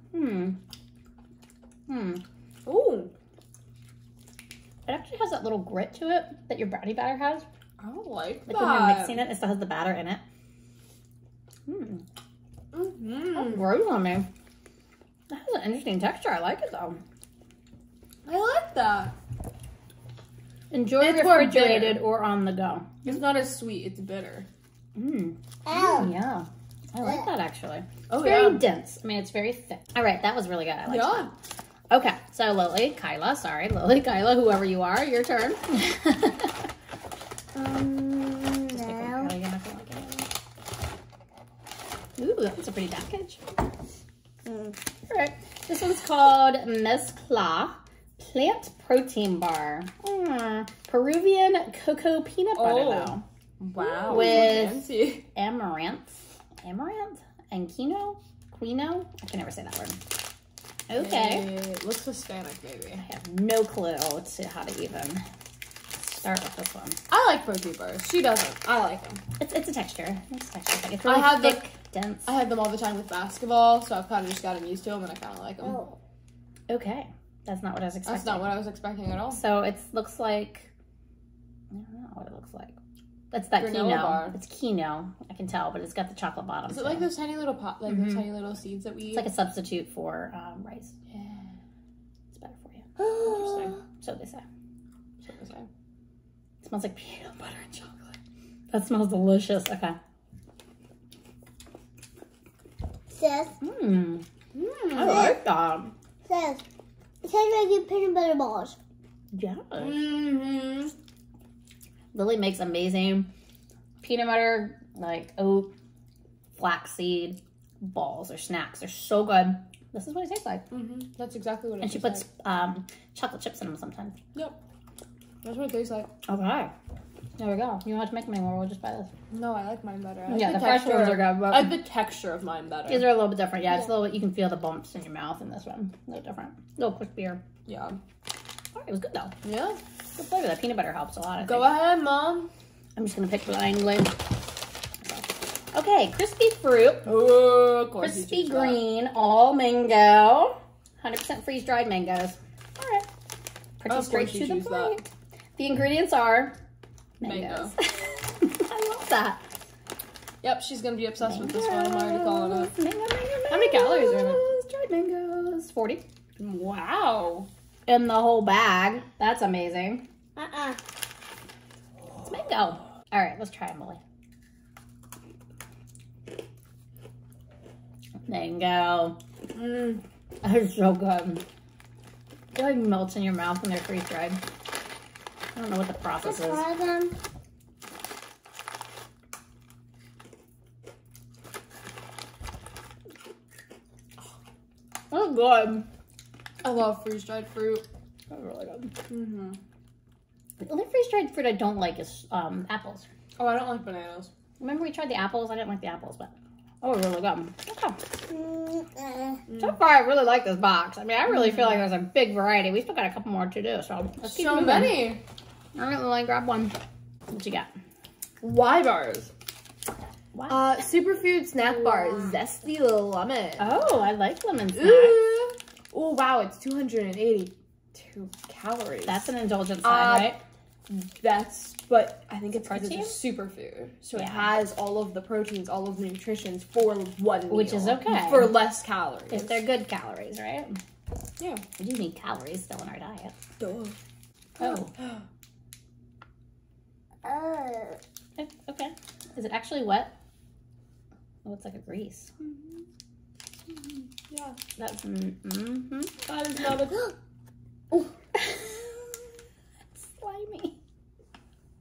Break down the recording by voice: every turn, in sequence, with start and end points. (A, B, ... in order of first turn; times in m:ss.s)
0:00.1-0:00.6 A
0:01.9-0:02.2 A
0:02.7-0:03.1 B
0:04.9-0:07.5 A
0:07.8-0:09.3 B
0:08.5-0:10.2 A
0:11.7-0:12.0 A
0:12.7-0:13.7 B
0:13.3-0:14.3 A
0:15.3-0:17.0 A
0:18.2-0:19.2 B
0:20.7-0:23.2 A
0:21.0-0:22.0 B
0:23.0-0:24.5 B
0:25.0-0:31.3 A
0:25.7-0:26.1 C
0:28.1-0:28.6 B
0:30.9-0:31.3 B
0:31.9-0:36.5 A
0:37.6-0:39.3 C
0:38.7-0:40.3 A
0:42.2-0:43.4 A
0:44.4-0:44.8 C
0:45.1-0:53.2 A
0:52.6-0:55.3 B
0:54.0-1:00.0 A
1:00.9-1:01.5 A
1:01.0-1:03.0 B
1:03.0-1:05.2 A
1:06.0-1:07.0 A
1:07.1-1:09.2 B
1:09.4-1:12.3 A
1:11.0-1:11.7 B
1:12.3-1:15.8 B
1:15.6-1:16.0 C
1:16.7-1:18.6 A
1:18.1-1:19.4 B
1:19.3-1:20.7 A
1:21.7-1:22.8 A
1:23.3-1:27.1 A
1:23.6-1:24.4 B
1:26.7-1:29.3 B
1:27.9-1:28.2 A
1:29.1-1:31.0 A
1:31.1-1:31.5 B
1:32.3-1:32.9 A
1:33.0-1:33.8 C
1:33.2-1:33.8 B
1:34.0-1:34.4 A
1:35.2-1:35.7 B
1:36.6-1:38.2 A
1:38.7-1:40.0 A
1:43.1-1:43.6 C
1:43.6-1:44.2 A
1:44.5-1:45.4 B
1:44.9-1:45.9 A
1:46.3-1:46.6 C
1:47.2-1:48.8 C
1:49.3-1:50.2 A
1:49.8-1:50.9 B
1:52.1-1:53.3 A
1:54.0-1:55.7 A
1:56.6-2:00.6 A
2:00.7-2:02.2 B
2:01.8-2:04.2 A
2:05.4-2:06.1 B
2:06.3-2:06.7 A
2:07.4-2:09.1 A
2:09.3-2:13.1 B
2:10.3-2:11.8 A
2:12.9-2:17.4 A
2:17.7-2:18.0 B
2:18.8-2:19.3 A
2:19.4-2:19.8 B
2:20.2-2:21.7 A
2:21.4-2:22.5 B
2:23.0-2:24.3 A
2:25.0-2:27.2 A
2:27.1-2:28.8 B
2:28.0-2:33.1 A
2:33.8-2:35.0 A
2:33.9-2:35.0 B
2:35.6-2:36.6 A
2:37.2-2:39.4 A
2:37.2-2:37.7 B
2:40.4-2:42.7 B
2:41.2-2:46.0 A
2:43.5-2:44.6 B
2:46.4-2:47.5 B
2:47.9-2:50.0 A
2:50.4-2:50.8 C
2:52.3-2:54.0 A
2:58.3-2:59.2 A
2:59.6-3:00.0 B
3:00.4-3:01.4 A
3:02.6-3:04.4 A
3:05.6-3:06.6 A
3:06.2-3:07.2 C
3:15.1-3:15.9 A
3:16.6-3:17.9 B
3:18.3-3:18.9 A
3:19.1-3:19.6 B
3:20.6-3:23.1 A
3:23.4-3:24.3 B
3:24.6-3:28.0 A
3:28.3-3:29.4 C
3:29.5-3:29.7 B
3:29.6-3:35.1 A
3:34.2-3:35.2 B
3:35.8-3:36.7 A
3:37.3-3:37.7 A
3:38.4-3:39.3 B
3:40.3-3:40.6 A
3:40.5-3:43.9 B
3:43.6-3:45.3 A
3:44.8-3:49.3 B
3:49.1-3:50.4 A
3:49.8-3:50.4 B
3:50.9-3:59.6 B
3:52.6-3:53.2 A
3:54.2-3:54.5 A
3:57.5-3:58.5 A
3:59.3-4:00.8 A
4:01.4-4:01.6 B
4:01.8-4:03.4 A
4:03.6-4:04.0 B
4:04.6-4:04.9 A
4:04.6-4:05.2 B
4:07.2-4:08.0 C
4:08.4-4:10.1 A
4:11.4-4:12.3 A
4:12.4-4:12.8 B
4:14.3-4:14.6 B
4:14.8-4:16.1 A
4:16.3-4:17.1 B
4:18.4-4:18.8 A
4:20.0-4:20.8 A